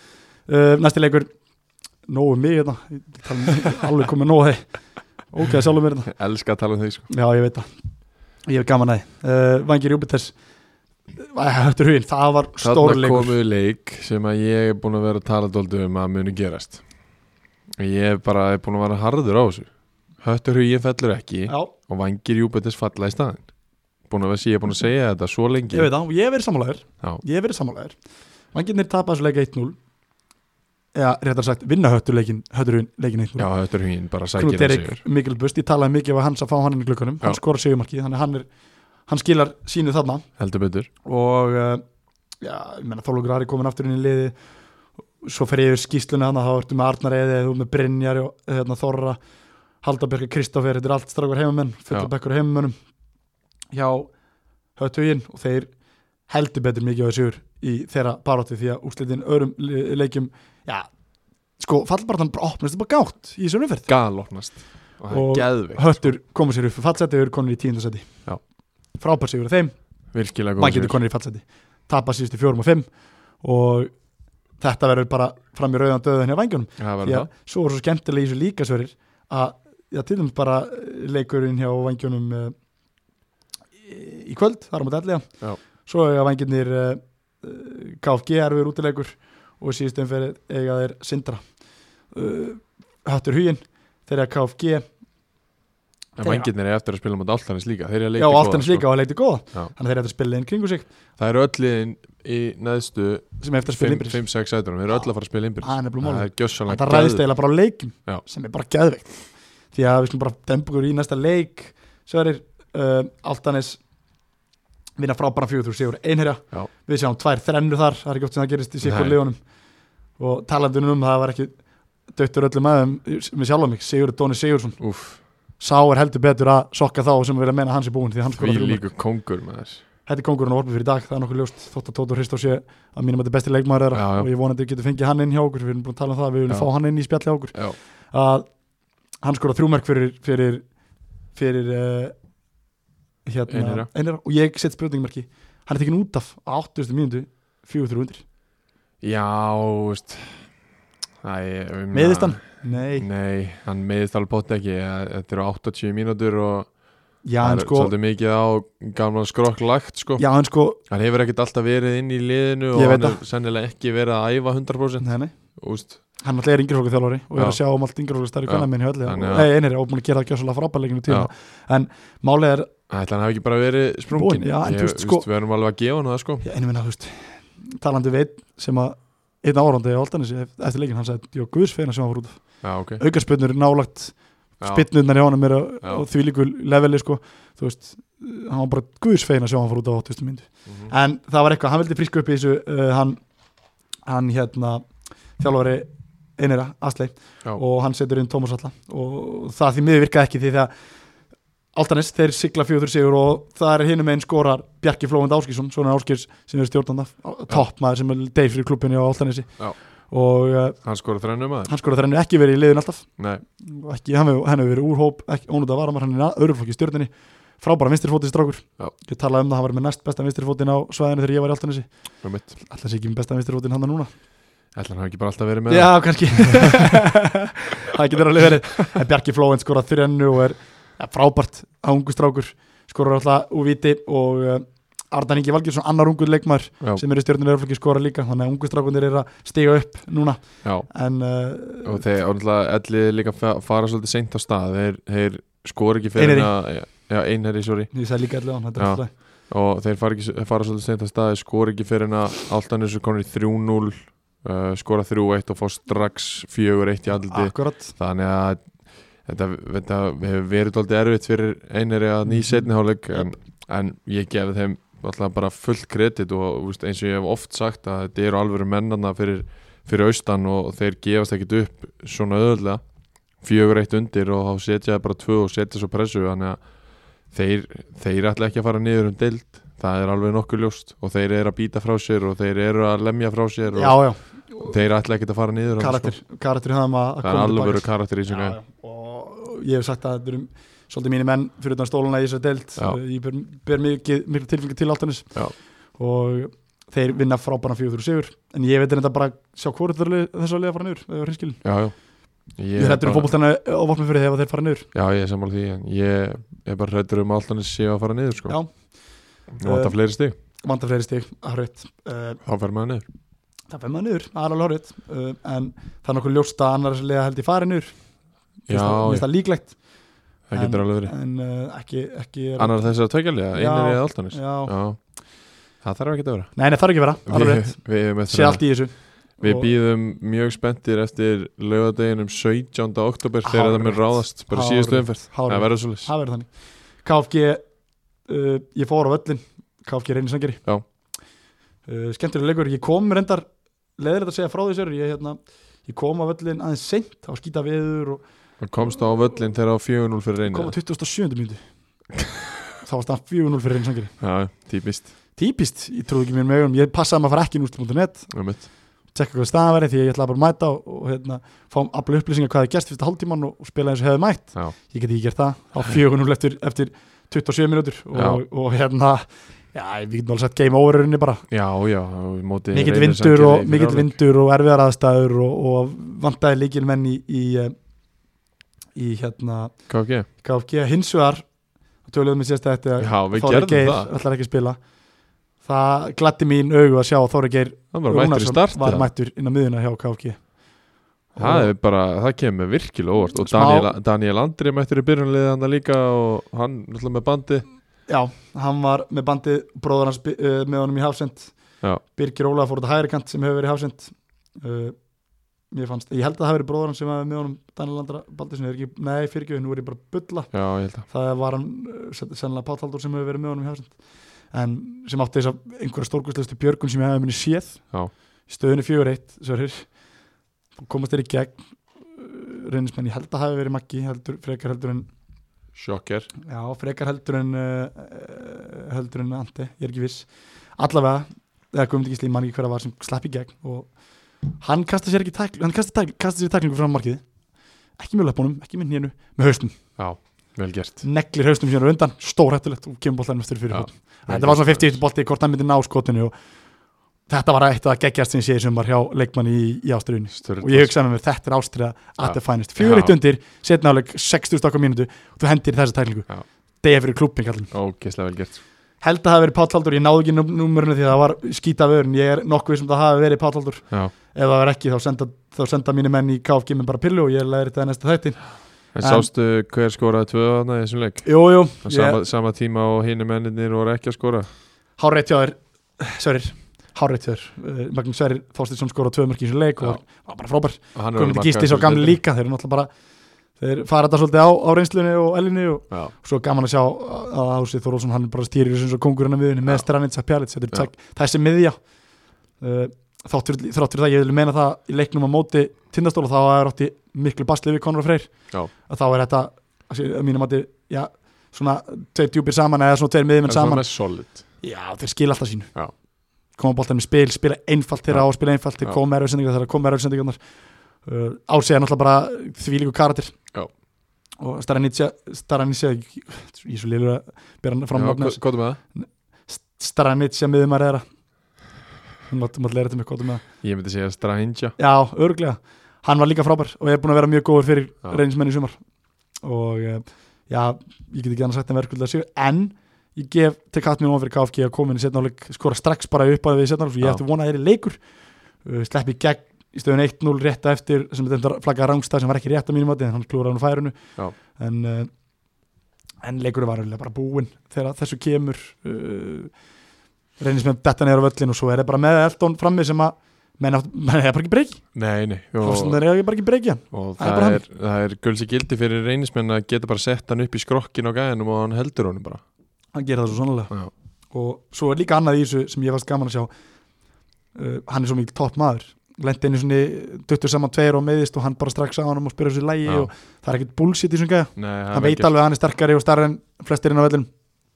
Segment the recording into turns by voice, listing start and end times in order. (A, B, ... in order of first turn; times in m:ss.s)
0:00.4-0:01.3 A
0:02.0-0:06.1 A
0:06.1-0:07.1 B
0:07.1-0:07.7 A
0:08.4-0:10.3 A
0:11.2-0:13.4 A
0:12.6-0:16.8 B
0:17.8-0:23.5 B
0:21.5-0:21.7 A
0:24.1-0:25.9 B
0:25.7-0:28.0 A
0:28.5-0:29.8 A
0:30.9-0:33.5 A
0:33.4-0:35.0 B
0:34.3-0:38.5 A
0:39.1-0:40.3 A
0:40.4-0:40.9 B
0:41.0-0:41.8 A
0:42.4-0:44.4 A
0:45.2-0:49.2 A
0:49.8-0:52.7 A
0:53.7-0:54.1 A
0:54.8-0:55.7 A
0:56.3-1:00.9 A
1:01.6-1:03.9 A
1:03.9-1:06.1 B
1:05.1-1:09.8 A
1:10.1-1:11.0 B
1:10.6-1:13.9 A
1:14.6-1:22.6 A
1:16.8-1:17.3 B
1:23.9-1:31.4 A
1:32.1-1:34.9 A
1:36.2-1:36.5 A
1:36.2-1:38.9 B
1:38.2-1:40.9 A
1:41.2-1:47.3 B
1:43.4-1:44.2 A
1:45.6-1:53.8 A
1:55.0-1:59.4 A
1:58.8-1:59.2 B
2:00.2-2:04.8 A
2:04.8-2:05.2 B
2:05.6-2:08.9 A
2:08.3-2:09.8 B
2:10.0-2:18.5 A
2:13.9-2:14.3 B
2:19.2-2:20.7 A
2:21.3-2:22.2 A
2:23.2-2:28.2 A
2:23.5-2:23.9 B
2:29.0-2:30.7 B
2:31.2-2:40.3 B
2:31.9-2:33.1 A
2:37.2-2:37.9 A
2:40.2-2:40.8 A
2:40.8-2:46.0 B
2:42.7-2:43.2 A
2:45.0-2:45.3 A
2:46.2-2:52.7 A
2:48.4-2:49.5 B
2:52.9-2:56.4 B
2:54.1-2:55.3 A
2:56.4-3:13.2 A
3:02.6-3:03.0 B
3:04.6-3:04.9 B
3:10.6-3:10.9 B
3:14.0-3:20.7 A
3:21.7-3:30.8 A
3:30.8-3:31.7 B
3:31.7-3:44.1 A
3:33.2-3:33.4 B
3:42.2-3:42.5 B
3:44.7-3:47.0 B
3:45.7-4:02.0 A
4:00.6-4:00.9 B
4:01.8-4:07.9 B
4:06.2-4:06.5 A
4:07.9-4:09.1 A
4:08.7-4:32.8 B
4:17.2-4:17.9 A
4:22.3-4:22.7 A
4:33.4-4:46.1 B
4:43.7-4:44.7 A
4:45.8-5:01.6 A
4:47.2-4:48.6 B
5:01.6-5:03.3 B
5:02.7-5:04.9 A
5:04.9-5:08.6 B
5:08.5-5:10.0 A
5:09.6-5:10.3 B
5:10.6-5:12.4 A
5:12.4-5:13.0 B
5:13.7-5:18.0 A
5:18.6-5:24.7 A
5:18.7-5:19.3 B
5:20.5-5:21.1 B
5:22.6-5:26.7 B
5:26.6-5:29.7 A
5:27.2-5:36.1 B
5:33.4-5:37.7 A
5:38.2-5:40.6 A
5:41.8-5:48.2 A
5:48.6-5:50.7 B
5:50.4-5:51.6 A
5:52.8-5:54.2 A
5:54.2-5:55.1 B
5:55.4-6:11.4 A
5:58.3-5:58.7 B
6:08.1-6:08.4 B
6:11.5-6:14.2 B
6:12.7-6:17.7 A
6:18.9-6:21.5 A
6:19.9-6:20.3 B
6:22.0-6:24.8 A
6:23.0-6:24.1 B
6:25.6-6:31.7 A
6:27.9-6:29.1 B
6:31.4-6:37.7 B
6:33.4-6:33.9 A
6:38.1-6:45.1 A
6:45.7-6:57.9 A
6:50.5-6:51.1 B
6:58.5-6:59.9 A
7:00.8-7:05.1 A
7:05.7-7:06.3 B
7:06.4-7:17.2 A
7:18.0-7:19.8 A
7:20.0-7:21.0 B
7:21.0-7:26.3 A
7:23.7-7:25.0 B
7:27.3-7:36.3 A
7:30.3-7:30.9 B
7:32.2-7:33.2 B
7:36.8-7:37.7 A
7:37.7-7:38.6 B
7:39.0-7:49.3 A
7:48.9-7:54.5 B
7:51.2-7:52.2 A
7:55.0-8:02.9 A
8:01.0-8:02.2 B
8:03.6-8:11.9 A
8:12.6-8:30.4 A
8:23.4-8:24.6 B
8:31.0-8:33.4 A
8:34.4-8:41.0 A
8:37.9-8:38.8 B
8:42.3-8:43.4 A
8:43.6-8:44.8 B
8:44.8-8:48.8 A
8:49.4-9:05.1 A
9:06.2-9:09.6 A
9:10.4-9:14.9 A
9:14.9-9:16.0 B
9:15.6-9:17.6 A
9:16.9-9:22.4 B
9:22.9-9:23.7 A
9:24.3-9:26.5 A
9:27.5-9:37.3 A
9:34.6-9:35.4 B